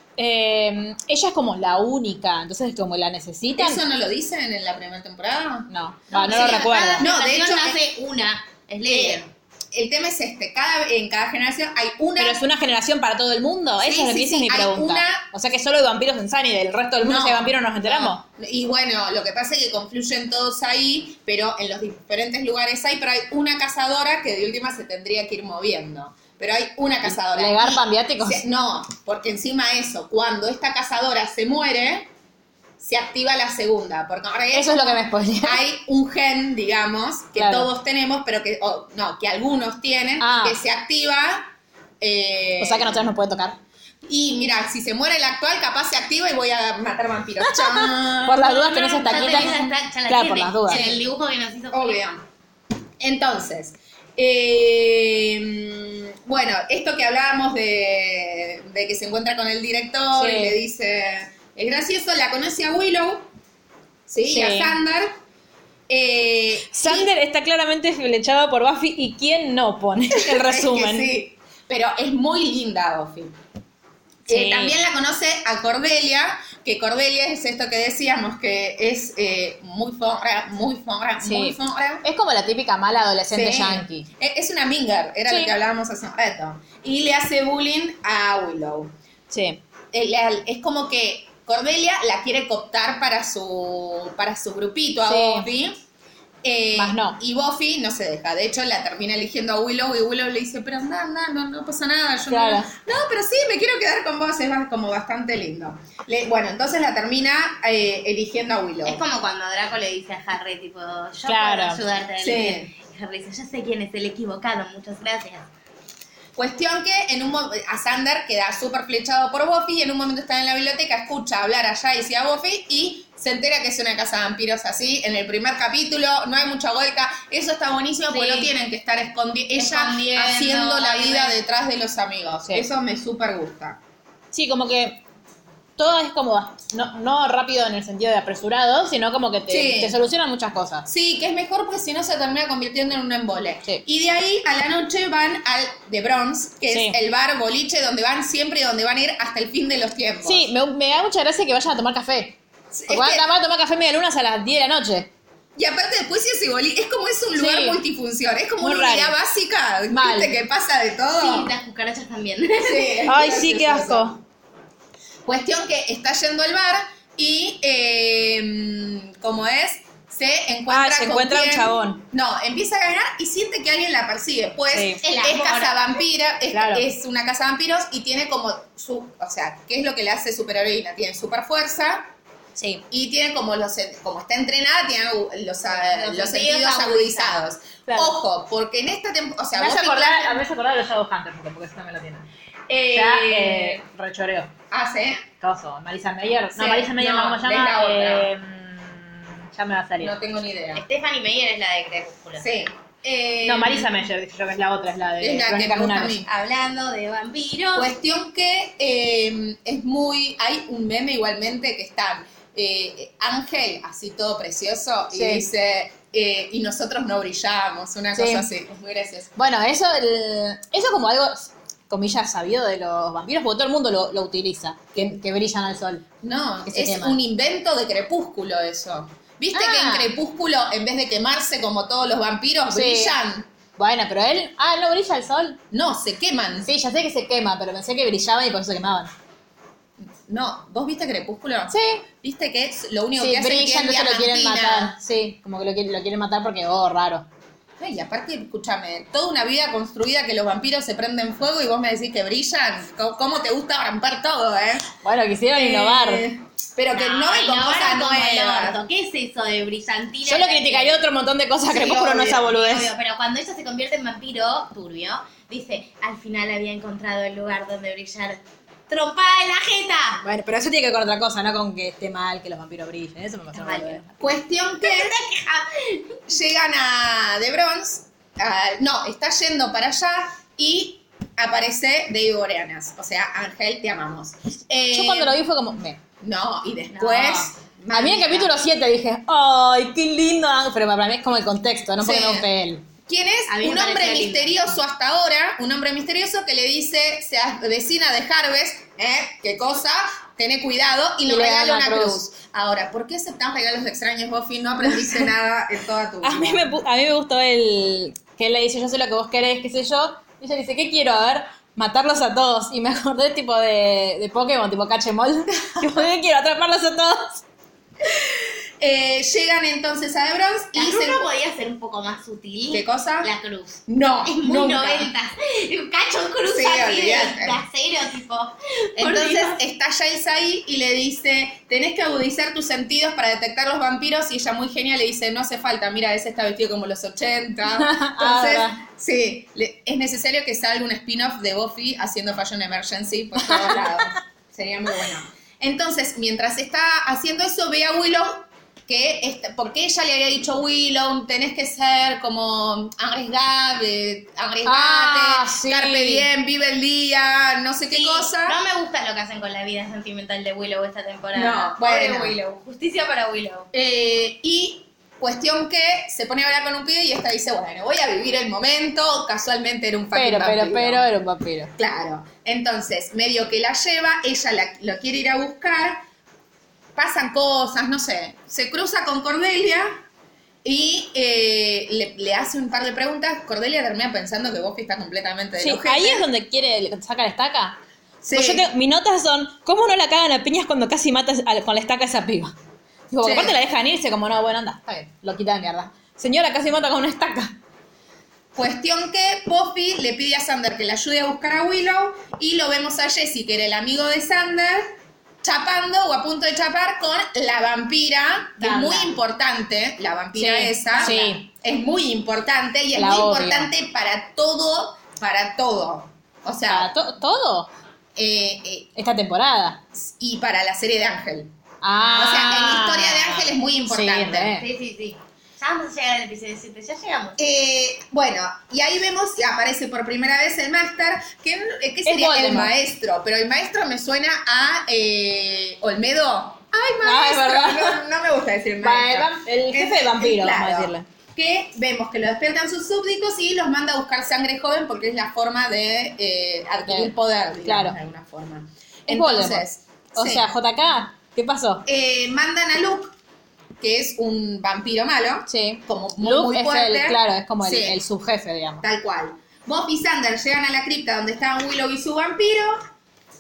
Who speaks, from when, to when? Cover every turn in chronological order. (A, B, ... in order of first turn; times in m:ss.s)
0:00.2-0:03.8 A
0:03.6-0:05.7 B
0:05.7-0:07.1 A
0:06.1-0:09.3 C
0:06.2-0:07.8 B
0:08.9-0:12.4 B
0:12.2-0:18.2 A
0:13.8-0:15.3 B
0:17.0-0:32.1 B
0:27.0-0:28.4 A
0:32.8-0:43.1 B
0:34.5-0:35.6 A
0:37.4-0:37.7 A
0:40.2-0:40.6 A
0:42.6-0:43.6 A
0:44.0-0:49.6 B
0:47.4-0:50.8 A
0:48.4-0:52.0 C
0:50.7-0:51.1 B
0:51.7-0:52.2 B
0:53.0-1:03.3 B
1:00.1-1:00.6 A
1:04.1-1:05.2 B
1:04.2-1:04.8 A
1:05.9-1:07.1 B
1:06.7-1:11.1 A
1:10.2-1:13.4 B
1:14.3-1:22.0 B
1:14.3-1:14.8 A
1:21.2-1:24.1 A
1:23.3-1:28.9 B
1:25.3-1:25.5 A
1:29.3-1:29.6 A
1:29.9-1:35.8 B
1:35.0-1:35.5 A
1:36.4-1:49.0 B
1:36.8-1:37.2 A
1:42.3-1:42.7 A
1:48.8-1:55.5 C
1:51.3-1:51.8 A
1:52.2-1:52.7 B
1:56.4-2:13.8 B
2:08.1-2:08.5 C
2:09.6-2:11.4 C
2:14.3-2:15.0 A
2:15.8-2:20.9 A
2:19.5-2:20.0 B
2:20.9-2:30.5 B
2:26.7-2:27.0 A
2:30.2-2:35.1 A
2:32.7-2:33.2 B
2:35.6-2:41.5 B
2:37.4-2:37.8 A
2:38.6-2:39.2 A
2:39.9-2:40.3 A
2:41.2-2:43.0 C
2:42.6-2:44.2 B
2:43.0-2:44.2 A
2:45.3-3:02.1 B
2:50.7-2:52.0 A
2:54.7-2:55.0 A
2:55.0-2:55.8 C
2:56.5-2:56.9 A
3:02.6-3:02.8 A
3:02.9-3:10.4 B
3:05.7-3:07.4 C
3:07.9-3:08.2 A
3:09.6-3:12.3 A
3:12.7-3:13.8 B
3:12.9-3:14.5 A
3:14.7-3:15.2 B
3:15.4-3:20.1 A
3:16.6-3:18.3 B
3:20.0-3:20.8 B
3:20.8-3:22.5 C
3:22.4-3:24.0 B
3:23.4-3:26.2 A
3:25.2-3:26.3 B
3:26.2-3:27.9 C
3:27.8-3:39.3 B
3:35.1-3:35.5 A
3:38.1-3:38.5 A
3:39.4-3:46.0 A
3:46.2-3:53.5 B
3:46.7-3:47.2 A
3:49.5-3:50.1 A
3:52.7-3:53.2 A
3:53.8-3:55.6 A
3:55.7-3:56.7 B
3:56.6-3:59.1 A
4:00.0-4:04.9 B
4:01.7-4:02.0 A
4:03.2-4:07.3 A
4:07.8-4:14.9 B
4:15.0-4:16.3 A
4:15.5-4:18.8 B
4:16.9-4:21.0 C
4:20.2-4:22.9 A
4:21.7-4:30.2 C
4:21.8-4:22.2 B
4:30.2-4:34.1 A
4:33.6-4:34.2 C
4:34.2-4:35.2 B
4:34.8-4:36.2 C
4:36.3-4:45.4 B
4:44.9-4:46.0 A
4:46.2-4:48.5 B
4:46.9-4:47.5 C
4:47.9-4:52.8 A
4:52.0-4:52.5 B
4:53.1-5:06.7 B
4:53.5-4:54.6 C
5:01.3-5:02.2 A
5:04.9-5:05.2 A
5:06.2-5:17.4 A
5:18.8-5:21.3 B
5:20.7-5:29.6 C
5:22.7-5:23.3 B
5:23.9-5:25.1 B
5:26.5-5:27.6 B
5:29.0-5:58.6 B
5:37.7-5:38.8 A
5:43.4-5:43.8 A
5:54.6-5:56.3 A
5:57.9-6:03.7 C
6:01.3-6:02.4 B
6:03.7-6:11.1 B
6:10.1-6:11.7 A
6:11.8-6:16.0 B
6:17.0-6:20.0 B
6:20.6-6:26.3 B
6:25.6-6:32.6 A
6:28.2-6:28.7 B
6:33.1-6:37.6 A
6:33.2-6:33.6 B
6:38.6-6:56.9 B
6:48.6-6:49.1 A
6:50.4-6:51.4 A
6:51.0-6:51.3 C
6:53.0-6:53.7 A
6:56.7-6:57.7 A
6:58.2-6:58.9 B
6:59.0-6:59.8 A
7:00.0-7:04.6 B
7:01.8-7:04.6 A
7:04.6-7:07.4 C
7:07.4-7:30.5 B
7:12.0-7:12.7 A
7:17.0-7:18.0 A
7:18.8-7:21.1 A
7:26.9-7:27.1 A
7:27.6-7:28.0 A
7:29.1-7:29.6 A
7:30.2-7:31.8 A
7:31.9-7:33.1 B
7:33.8-7:38.0 B
7:35.5-7:38.8 A
7:38.8-7:42.8 B